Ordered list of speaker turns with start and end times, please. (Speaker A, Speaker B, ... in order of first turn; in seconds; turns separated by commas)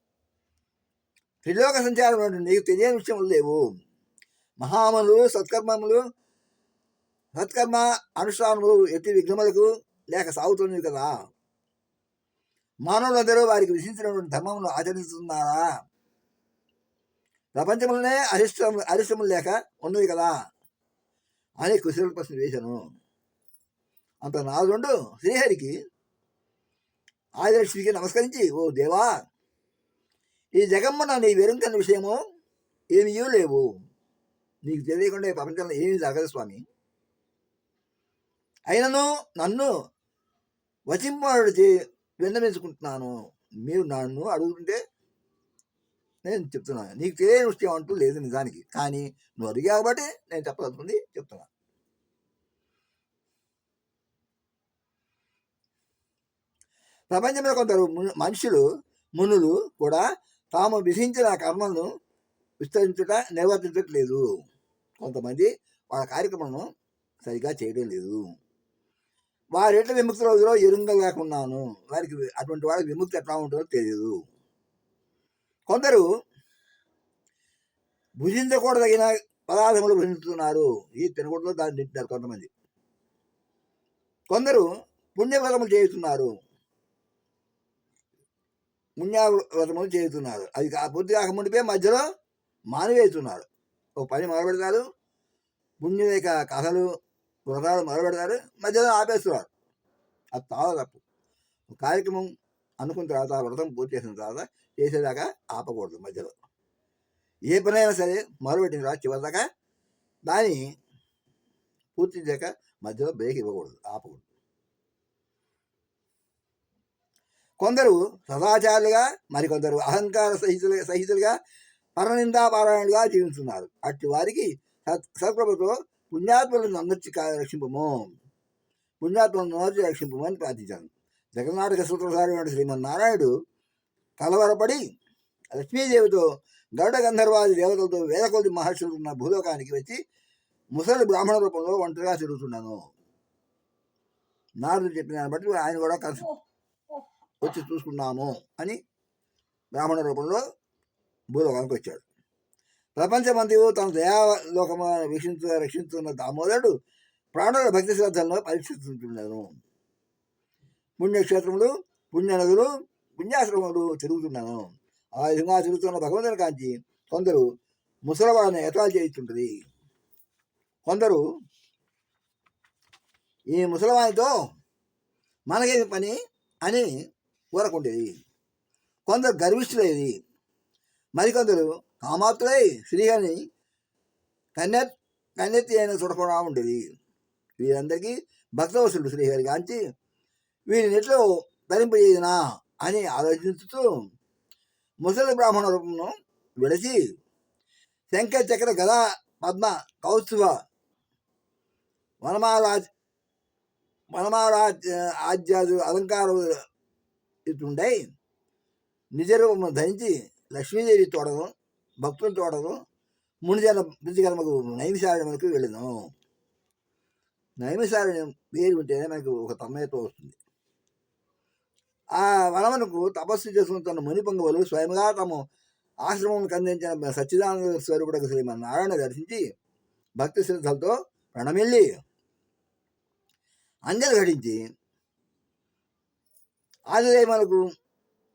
Speaker A: 1.4-3.6, Speaker A: 4.6-6.0, Speaker A: 7.3-11.1, Speaker A: 12.8-15.7, Speaker A: 17.6-20.3, Speaker A: 21.6-22.8, Speaker A: 24.2-25.7, Speaker A: 27.4-29.1, Speaker A: 30.6-32.2, Speaker A: 32.9-33.8, Speaker A: 34.6-36.6, Speaker A: 38.7-39.7, Speaker A: 40.9-43.1, Speaker A: 43.6-44.8, Speaker A: 46.3-51.5, Speaker A: 57.1-58.6, Speaker A: 59.2-61.9, Speaker A: 62.6-64.2, Speaker A: 65.0-66.7, Speaker A: 67.2-68.2, Speaker A: 69.6-74.2, Speaker A: 75.7-76.0, Speaker A: 78.2-82.5, Speaker A: 84.3-86.4, Speaker A: 89.0-92.0, Speaker A: 92.7-93.5, Speaker A: 94.0-94.8, Speaker A: 95.8-96.9, Speaker A: 97.5-99.5, Speaker A: 100.3-101.0, Speaker A: 101.8-102.3, Speaker A: 102.8-106.3, Speaker A: 107.5-109.4, Speaker A: 110.3-110.6, Speaker A: 112.0-114.2, Speaker A: 117.6-121.3, Speaker A: 122.0-128.1, Speaker A: 129.0-133.3, Speaker A: 134.2-134.8, Speaker A: 135.5-136.2, Speaker A: 136.8-140.0, Speaker A: 140.7-142.8, Speaker A: 144.6-146.3, Speaker A: 147.4-148.8, Speaker A: 149.7-150.4, Speaker A: 151.3-152.0, Speaker A: 153.0-156.7, Speaker A: 157.3-159.5, Speaker A: 161.0-167.4, Speaker A: 168.1-169.5, Speaker A: 170.9-171.2, Speaker A: 173.5-174.3, Speaker A: 175.5-176.9, Speaker A: 177.5-178.2, Speaker A: 179.1-180.1, Speaker A: 181.2-183.4, Speaker A: 184.6-186.8, Speaker A: 187.6-189.8, Speaker A: 190.7-193.9, Speaker A: 195.0-197.0, Speaker A: 198.1-200.6, Speaker A: 202.2-202.9, Speaker A: 204.1-206.6, Speaker A: 207.5-208.0, Speaker A: 209.2-211.5, Speaker A: 212.0-212.8, Speaker A: 213.4-215.9, Speaker A: 217.6-220.4, Speaker A: 222.2-225.4, Speaker A: 226.0-229.4, Speaker A: 230.2-231.9, Speaker A: 233.9-234.6, Speaker A: 236.9-237.7